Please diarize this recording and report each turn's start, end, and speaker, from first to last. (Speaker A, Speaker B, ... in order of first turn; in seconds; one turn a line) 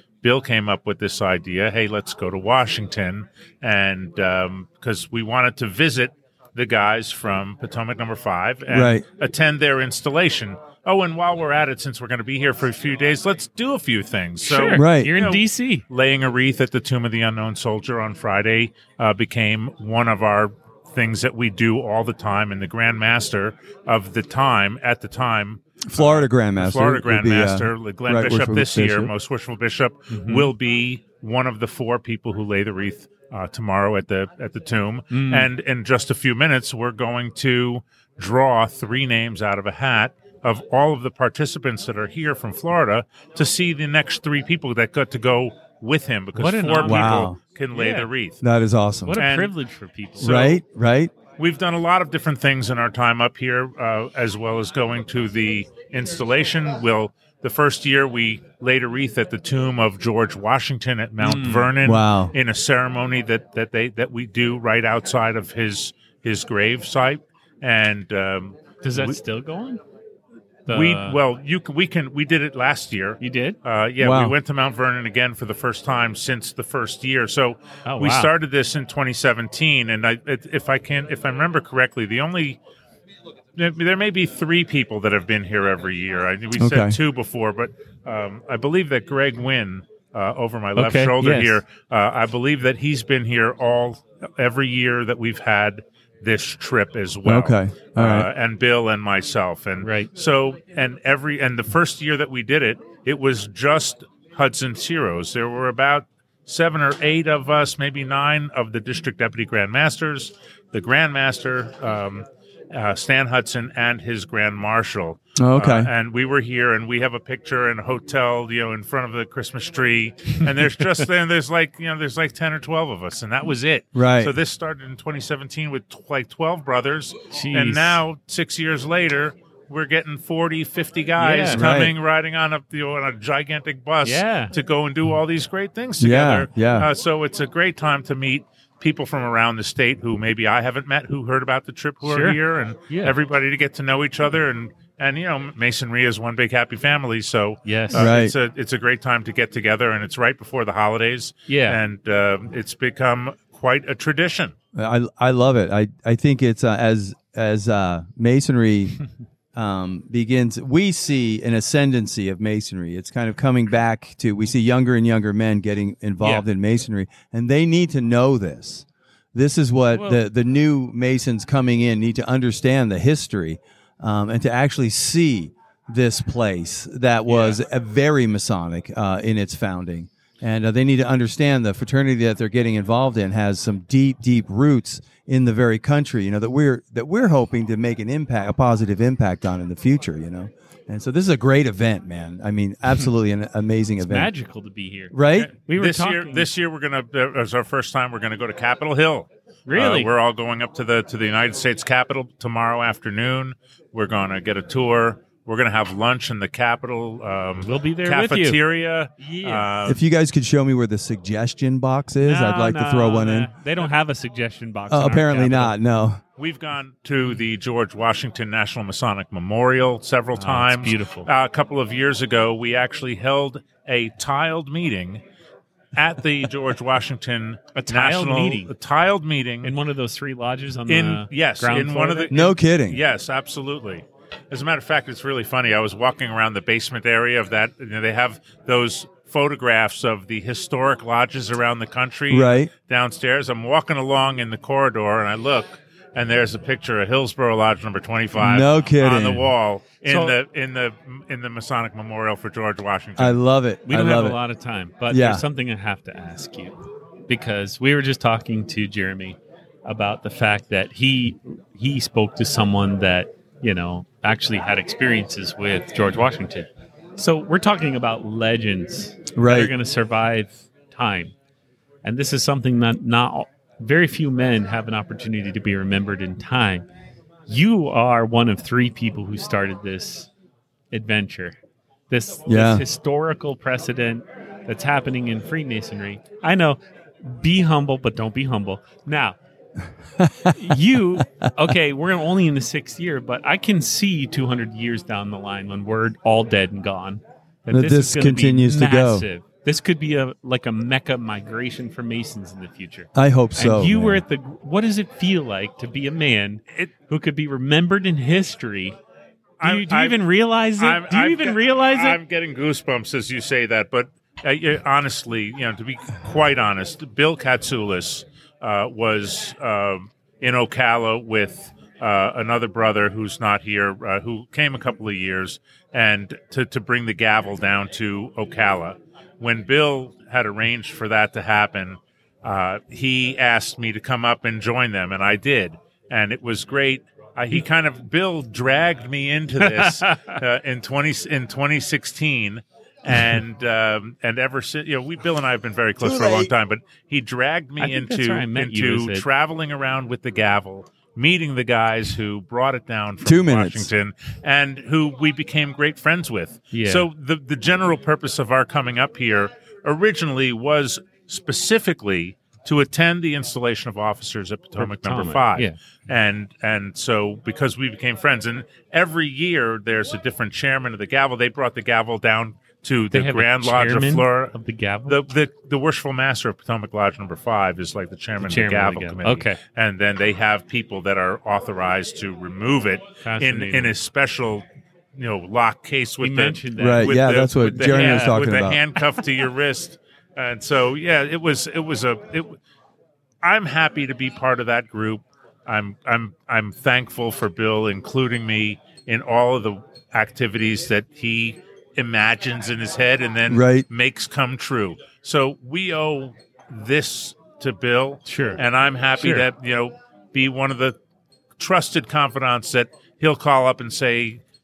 Speaker A: 0.2-48.4
Speaker B: 8.7-9.0
Speaker C: 14.4-15.8
Speaker B: 14.7-15.1
Speaker B: 25.9-29.1
Speaker C: 30.1-30.5
Speaker C: 35.1-35.5
Speaker C: 46.3-48.1
Speaker B: 46.8-47.4
Speaker B: 48.4-49.2
Speaker C: 49.0-50.4
Speaker A: 49.2-49.5
Speaker A: 50.2-50.6
Speaker B: 50.2-51.1
Speaker A: 51.4-69.2
Speaker C: 61.2-61.7
Speaker B: 61.8-62.3
Speaker C: 68.8-69.8
Speaker C: 70.7-71.2
Speaker A: 70.7-82.6
Speaker C: 73.2-73.6
Speaker B: 74.0-74.3
Speaker C: 77.8-78.3
Speaker A: 83.6-154.5
Speaker B: 86.6-87.0
Speaker C: 90.8-91.6
Speaker B: 97.2-98.3
Speaker C: 99.8-100.1
Speaker B: 115.4-115.9
Speaker B: 123.9-124.3
Speaker C: 127.3-128.0
Speaker C: 131.2-131.7
Speaker B: 131.5-131.9
Speaker C: 134.0-134.5
Speaker B: 136.0-136.9
Speaker C: 142.0-143.2
Speaker C: 147.6-148.1
Speaker B: 147.9-148.3
Speaker C: 151.5-151.8
Speaker B: 154.8-159.0
Speaker B: 159.6-194.3
Speaker C: 166.2-166.5
Speaker C: 169.9-170.2
Speaker C: 177.3-177.6
Speaker C: 194.0-196.5
Speaker B: 195.1-195.5
Speaker A: 195.3-210.0
Speaker C: 199.7-200.1
Speaker C: 207.6-208.6
Speaker C: 209.2-209.7
Speaker B: 209.8-213.5
Speaker C: 212.2-215.8
Speaker B: 214.9-216.2
Speaker A: 216.4-225.2
Speaker C: 220.3-221.3
Speaker A: 225.9-229.7
Speaker C: 227.8-228.7
Speaker C: 229.6-232.3
Speaker A: 230.9-253.4
Speaker B: 232.3-233.0
Speaker B: 242.3-242.7
Speaker B: 248.4-249.5
Speaker C: 250.0-250.4
Speaker B: 253.2-254.4
Speaker C: 253.8-256.8
Speaker B: 255.1-255.4
Speaker C: 257.3-271.3
Speaker B: 269.4-269.7
Speaker C: 272.0-276.9
Speaker C: 277.5-280.3
Speaker C: 280.9-281.6
Speaker C: 282.1-289.4
Speaker B: 282.4-282.8
Speaker B: 290.2-291.4
Speaker C: 290.5-309.0
Speaker B: 297.7-299.2
Speaker B: 303.1-304.2
Speaker A: 309.6-310.2
Speaker C: 309.6-312.2
Speaker A: 310.8-374.6
Speaker C: 339.6-340.3
Speaker B: 346.0-346.5
Speaker C: 347.8-349.2
Speaker B: 353.2-353.9
Speaker C: 356.7-357.1
Speaker C: 364.8-365.8
Speaker C: 373.1-375.2
Speaker A: 375.1-392.6
Speaker C: 378.4-379.6
Speaker C: 383.2-383.9
Speaker C: 386.2-388.6
Speaker B: 386.8-388.8
Speaker A: 393.4-411.0
Speaker B: 403.5-403.9
Speaker C: 408.2-408.6
Speaker C: 409.1-409.5
Speaker A: 411.6-414.4